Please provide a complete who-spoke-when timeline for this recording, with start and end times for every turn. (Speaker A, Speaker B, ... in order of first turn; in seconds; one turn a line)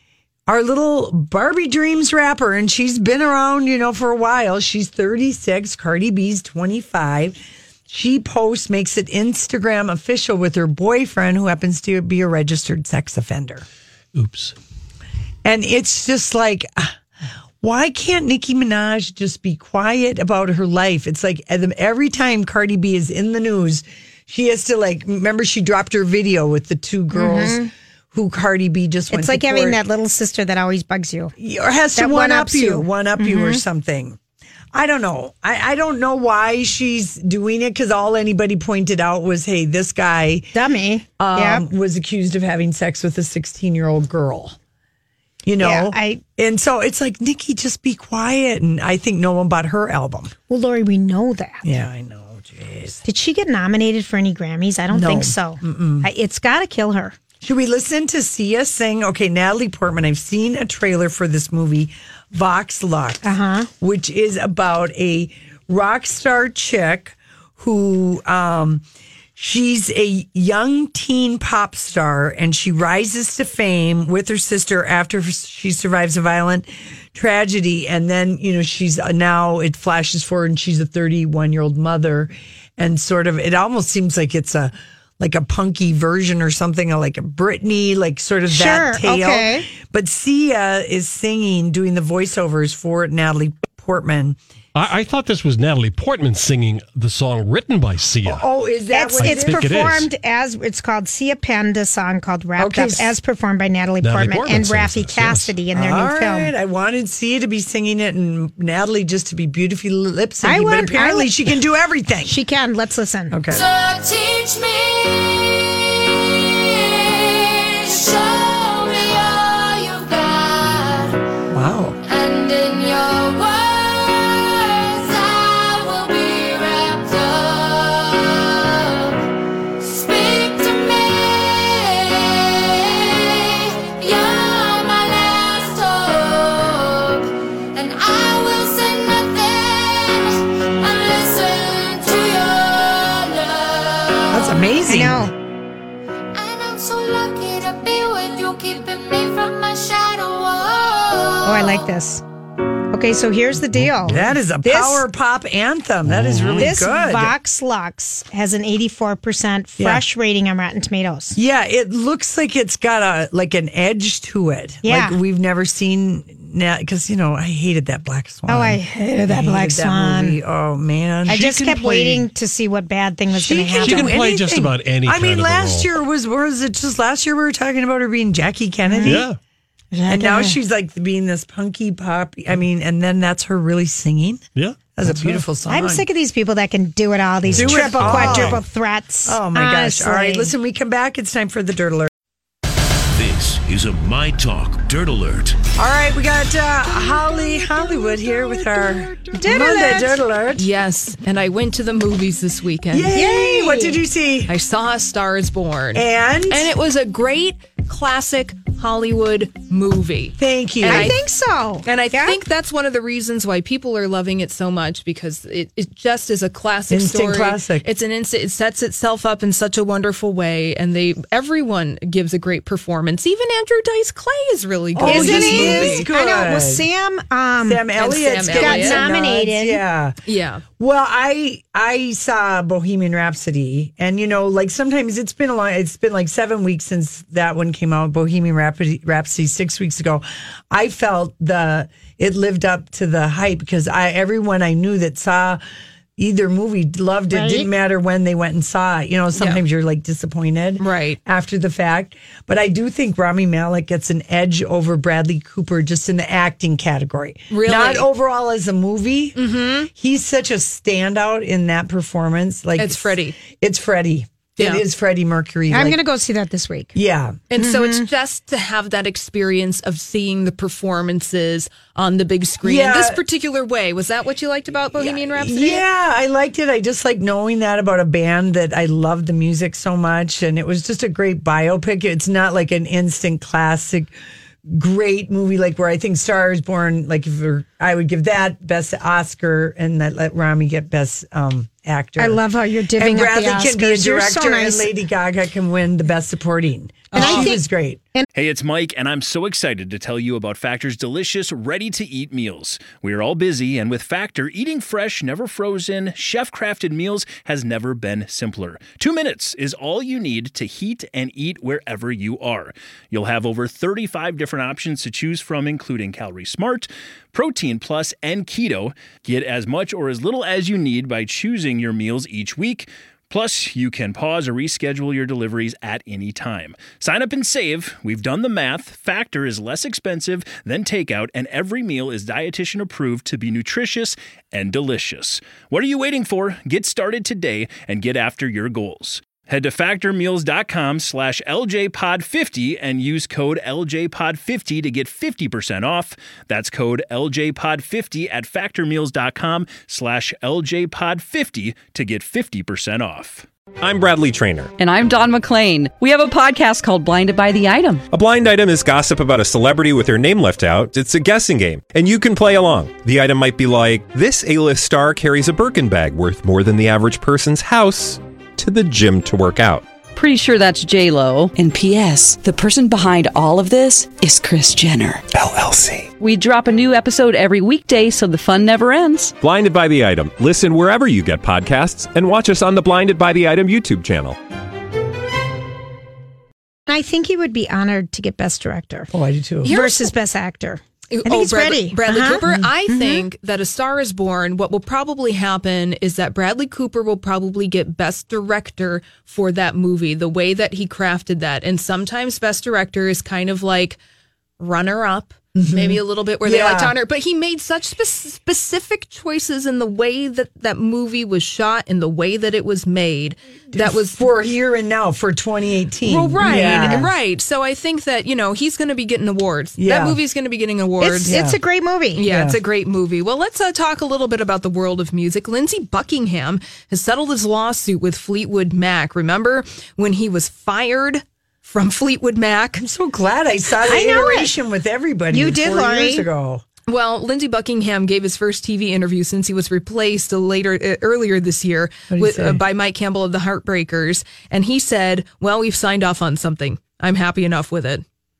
Speaker A: 0.5-13.7
Speaker B: 14.1-14.5
Speaker A: 15.4-16.9
Speaker A: 17.6-29.8
Speaker C: 27.1-27.7
Speaker C: 29.1-31.3
Speaker A: 31.4-34.2
Speaker C: 31.9-33.6
Speaker A: 34.7-40.5
Speaker C: 40.5-41.6
Speaker A: 41.2-44.6
Speaker A: 45.4-50.3
Speaker C: 45.6-46.2
Speaker C: 50.5-51.6
Speaker A: 51.6-53.0
Speaker C: 53.0-57.2
Speaker A: 54.9-56.1
Speaker A: 57.4-63.2
Speaker C: 63.2-63.7
Speaker A: 63.8-68.8
Speaker A: 69.3-94.4
Speaker C: 88.5-89.7
Speaker B: 94.7-98.4
Speaker A: 98.2-99.9
Speaker C: 98.9-106.5
Speaker B: 99.2-100.1
Speaker A: 102.6-103.1
Speaker B: 104.0-105.5
Speaker A: 105.7-112.3
Speaker C: 110.4-111.3
Speaker C: 112.2-113.3
Speaker A: 113.3-113.6
Speaker D: 113.5-121.2
Speaker A: 121.5-122.0
Speaker D: 122.0-129.2
Speaker D: 129.8-144.6
Speaker A: 144.3-145.3
Speaker C: 144.9-145.3
Speaker D: 146.3-151.8
Speaker C: 151.4-152.2
Speaker C: 152.9-155.0
Speaker A: 154.0-157.3
Speaker B: 156.1-156.7
Speaker C: 156.6-161.4
Speaker A: 161.3-172.3
Speaker C: 164.8-165.2
Speaker C: 168.5-170.4
Speaker C: 171.2-174.2
Speaker A: 173.3-179.3
Speaker B: 173.8-175.9
Speaker C: 178.9-179.2
Speaker B: 179.0-179.4
Speaker C: 179.9-180.6
Speaker A: 180.1-184.4
Speaker B: 184.6-185.4
Speaker A: 184.9-186.1
Speaker C: 185.7-190.5
Speaker B: 187.5-188.6
Speaker A: 187.5-188.6
Speaker A: 189.2-192.1
Speaker E: 193.1-195.6
Speaker A: 195.7-200.7
Speaker C: 199.3-200.2
Speaker F: 200.6-203.1
Speaker A: 202.9-204.5
Speaker C: 203.1-204.0
Speaker F: 204.5-211.2
Speaker A: 205.9-206.7
Speaker A: 210.4-211.2
Speaker C: 210.9-212.4
Speaker F: 211.8-226.1
Speaker A: 216.9-217.9
Speaker A: 224.9-226.8
Speaker C: 225.0-228.0
Speaker A: 227.6-230.2
Speaker F: 228.0-229.0
Speaker C: 228.5-229.8
Speaker F: 230.3-230.6
Speaker A: 230.8-245.6
Speaker A: 246.2-259.4
Speaker C: 247.3-247.7
Speaker F: 249.3-249.6
Speaker F: 250.8-251.2
Speaker F: 257.5-258.1
Speaker F: 259.4-259.9
Speaker A: 259.9-266.0
Speaker F: 262.8-263.4
Speaker F: 264.6-264.8
Speaker C: 265.7-266.9
Speaker A: 266.9-267.4
Speaker F: 267.5-275.8
Speaker C: 267.6-268.1
Speaker A: 272.6-273.2
Speaker A: 275.0-284.1
Speaker A: 284.7-292.4
Speaker C: 292.2-294.9
Speaker A: 292.9-298.0
Speaker C: 297.1-298.3
Speaker F: 297.2-297.5
Speaker G: 298.3-353.5
Speaker H: 353.8-354.7
Speaker I: 354.8-358.0
Speaker H: 358.1-369.8
Speaker I: 370.1-375.2
Speaker H: 375.4-376.1
Speaker I: 376.2-379.3
Speaker H: 379.4-384.4
Speaker C: 386.9-389.1
Speaker A: 389.1-389.7
Speaker F: 389.6-390.1
Speaker C: 389.6-393.2
Speaker F: 391.1-404.0
Speaker F: 404.6-414.2
Speaker A: 405.6-406.9
Speaker A: 413.7-417.1
Speaker F: 416.0-421.4
Speaker C: 416.4-417.0
Speaker A: 419.8-420.2
Speaker C: 421.0-422.2
Speaker A: 421.2-421.6
Speaker F: 422.1-432.8
Speaker A: 422.2-422.6
Speaker A: 432.8-436.6
Speaker C: 433.9-434.5
Speaker C: 435.3-436.2
Speaker F: 436.9-448.0
Speaker A: 442.1-442.6